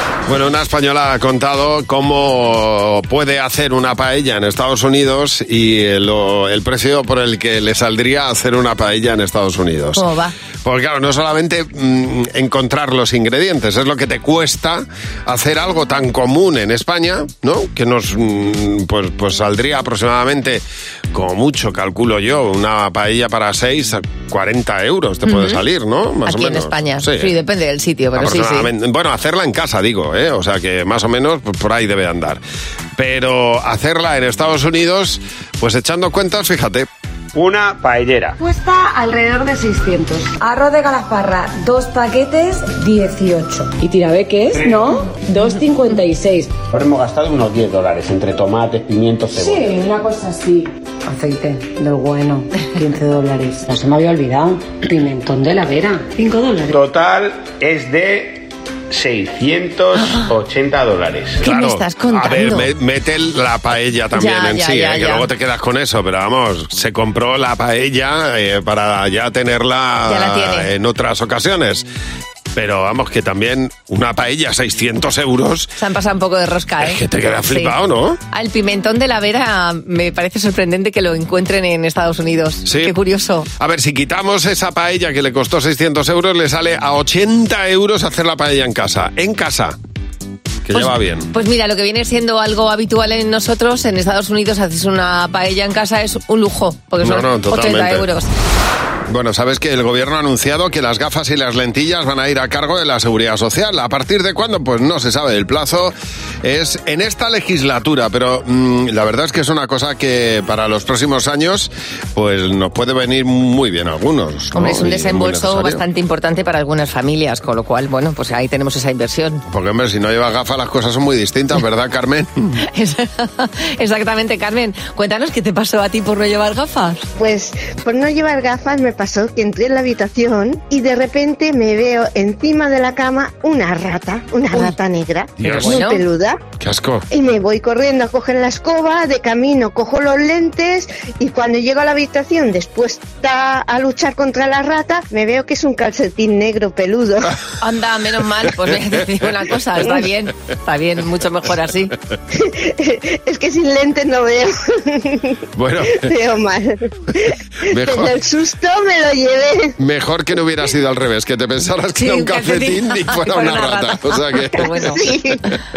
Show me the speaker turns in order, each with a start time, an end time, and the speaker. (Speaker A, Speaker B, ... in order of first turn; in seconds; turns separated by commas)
Speaker A: 0.3-10.1, Speaker B: 10.0-10.3, Speaker A: 10.6-27.3, Speaker B: 25.3-25.6, Speaker B: 26.3-28.7, Speaker A: 28.2-32.4, Speaker A: 33.0-36.9, Speaker C: 37.3-38.4, Speaker D: 38.4-46.5, Speaker C: 44.5-44.9, Speaker C: 46.7-49.7, Speaker D: 49.4-56.6, Speaker C: 56.7-61.5, Speaker B: 61.4-62.7, Speaker A: 61.4-71.8, Speaker B: 64.2-65.3, Speaker B: 70.1-70.7, Speaker A: 72.5-75.7, Speaker B: 75.8-77.8, Speaker A: 76.8-78.2, Speaker B: 78.3-83.5, Speaker A: 82.7-82.9, Speaker A: 83.6-89.8, Speaker A: 90.7-91.3, Speaker B: 90.7-98.3, Speaker A: 97.0-98.1, Speaker A: 99.1-115.8, Speaker B: 114.5-119.4, Speaker A: 119.5-122.6, Speaker B: 122.7-127.0, Speaker E: 127.2-136.4, Speaker A: 135.4-135.8, Speaker B: 135.5-136.0, Speaker A: 136.6-137.1, Speaker E: 137.1-147.3, Speaker B: 147.6-151.9, Speaker E: 152.3-155.3, Speaker A: 155.6-156.1, Speaker E: 155.8-159.8, Speaker A: 157.7-158.2, Speaker A: 159.8-164.8, Speaker B: 162.0-165.1, Speaker E: 164.9-165.4